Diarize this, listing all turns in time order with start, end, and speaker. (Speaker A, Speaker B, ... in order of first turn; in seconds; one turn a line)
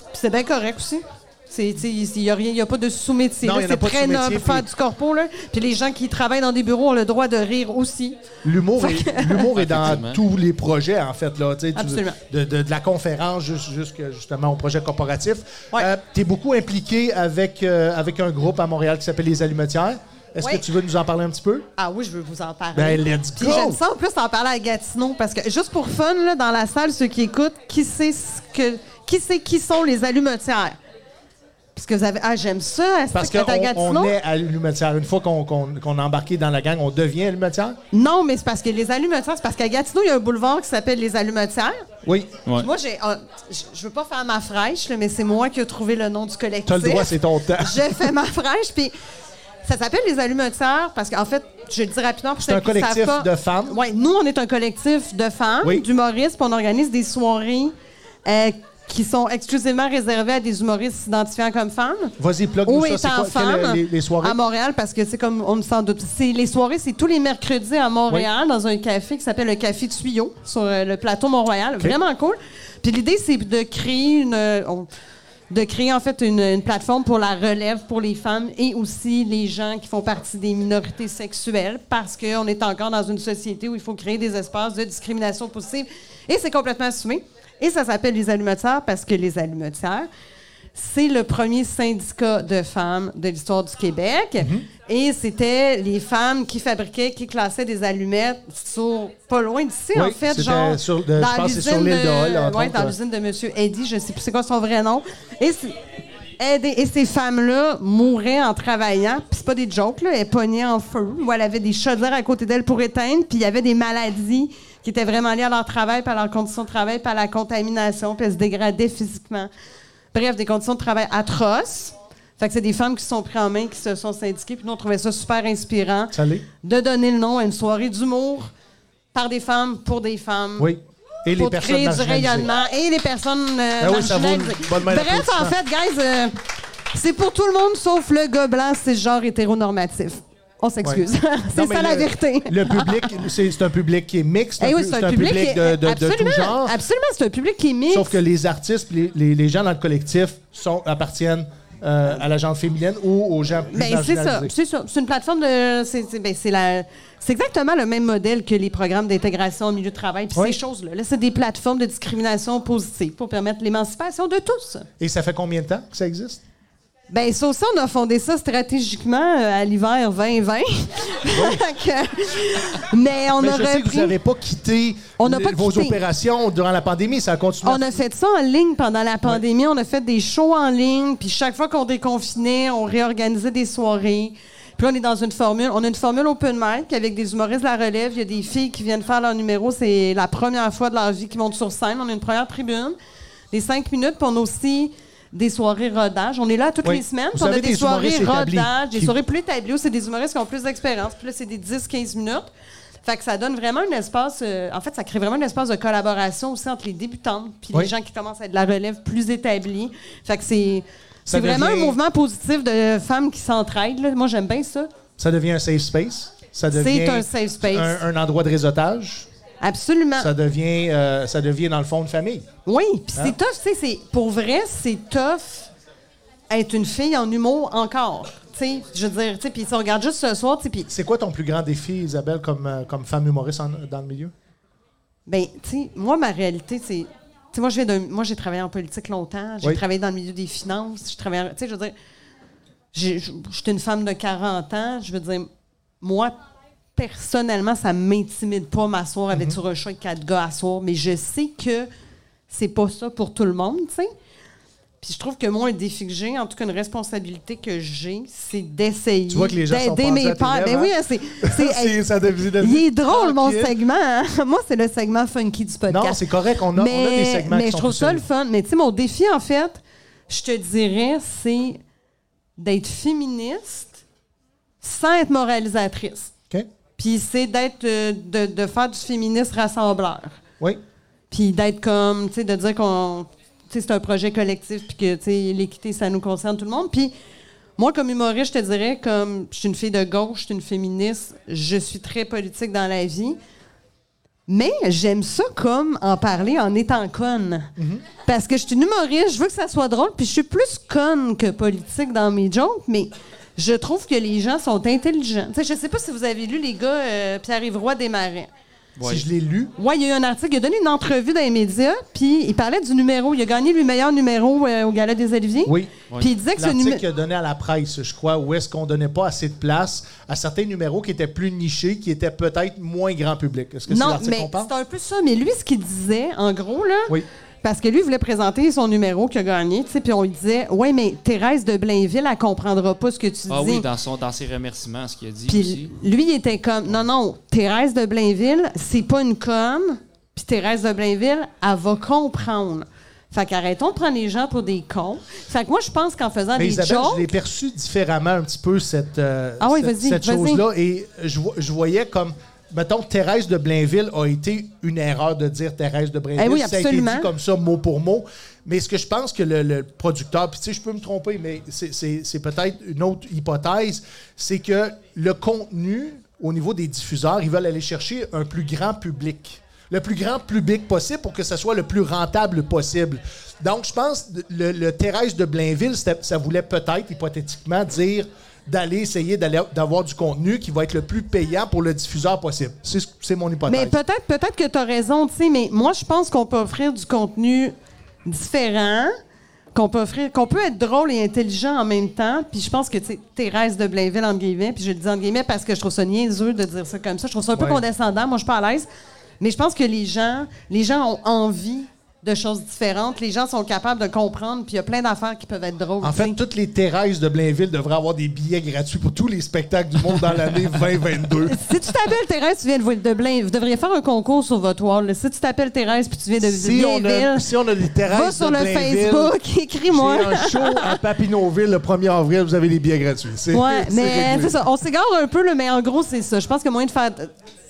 Speaker A: 0.1-8.2
Speaker B: 3.4-4.7
Speaker B: 8.4-21.7
Speaker A: 8.8-9.5
Speaker C: 9.5-10.2
Speaker A: 11.8-12.2
Speaker A: 21.8-30.8
Speaker B: 22.7-23.8
Speaker A: 31.8-34.2
Speaker B: 33.1-37.8
Speaker A: 37.9-41.8
Speaker B: 42.0-42.4
Speaker A: 42.5-49.0
Speaker B: 46.7-48.1
Speaker A: 49.6-57.7
Speaker B: 52.4-53.8
Speaker A: 58.2-74.9
Speaker B: 62.2-64.4
Speaker A: 75.5-90.1
Speaker A: 90.8-105.8
Speaker B: 94.4-94.7
Speaker B: 99.9-103.0
Speaker A: 106.4-119.5
Speaker A: 120.1-128.5
Speaker B: 126.1-126.5
Speaker A: 129.1-130.7
Speaker B: 130.6-132.5
Speaker A: 131.3-143.1
Speaker B: 133.8-135.6
Speaker B: 140.8-146.8
Speaker A: 144.6-148.2
Speaker B: 147.9-154.5
Speaker A: 153.7-164.9
Speaker B: 165.0-166.4
Speaker A: 167.1-174.2
Speaker B: 171.3-171.6
Speaker B: 173.4-177.9
Speaker A: 175.2-176.0
Speaker A: 177.6-193.0
Speaker A: 193.5-202.5
Speaker B: 196.8-199.1
Speaker A: 203.0-214.9
Speaker B: 211.3-212.0
Speaker B: 215.2-219.3
Speaker A: 216.7-218.0
Speaker A: 219.6-220.3
Speaker B: 220.2-222.5
Speaker A: 222.7-225.7
Speaker A: 226.5-230.9
Speaker B: 230.9-234.3
Speaker A: 235.3-241.9
Speaker A: 242.9-245.5
Speaker A: 246.0-246.3
Speaker A: 247.0-251.9
Speaker A: 252.5-254.1
Speaker A: 255.0-262.0
Speaker B: 259.3-260.9
Speaker B: 261.5-263.7
Speaker A: 262.6-271.8
Speaker B: 265.9-268.2
Speaker A: 272.6-274.0
Speaker A: 274.8-276.3
Speaker A: 277.0-280.4
Speaker A: 281.3-287.1
Speaker A: 287.8-293.4
Speaker A: 294.5-308.5
Speaker B: 297.8-298.0
Speaker C: 309.0-309.2
Speaker B: 309.0-309.7
Speaker A: 309.8-317.0
Speaker B: 315.7-316.0
Speaker B: 316.6-324.7
Speaker A: 323.9-333.9
Speaker C: 333.5-336.0
Speaker A: 335.5-347.3
Speaker B: 346.6-383.9
Speaker A: 349.6-350.6
Speaker A: 356.4-357.3
Speaker A: 383.7-387.7
Speaker A: 388.2-389.1
Speaker A: 389.7-398.9
Speaker B: 397.6-397.8
Speaker A: 399.4-406.4
Speaker B: 406.0-411.6
Speaker A: 411.4-417.5
Speaker B: 416.4-419.4
Speaker A: 418.0-421.0
Speaker B: 419.9-424.5
Speaker A: 423.5-427.3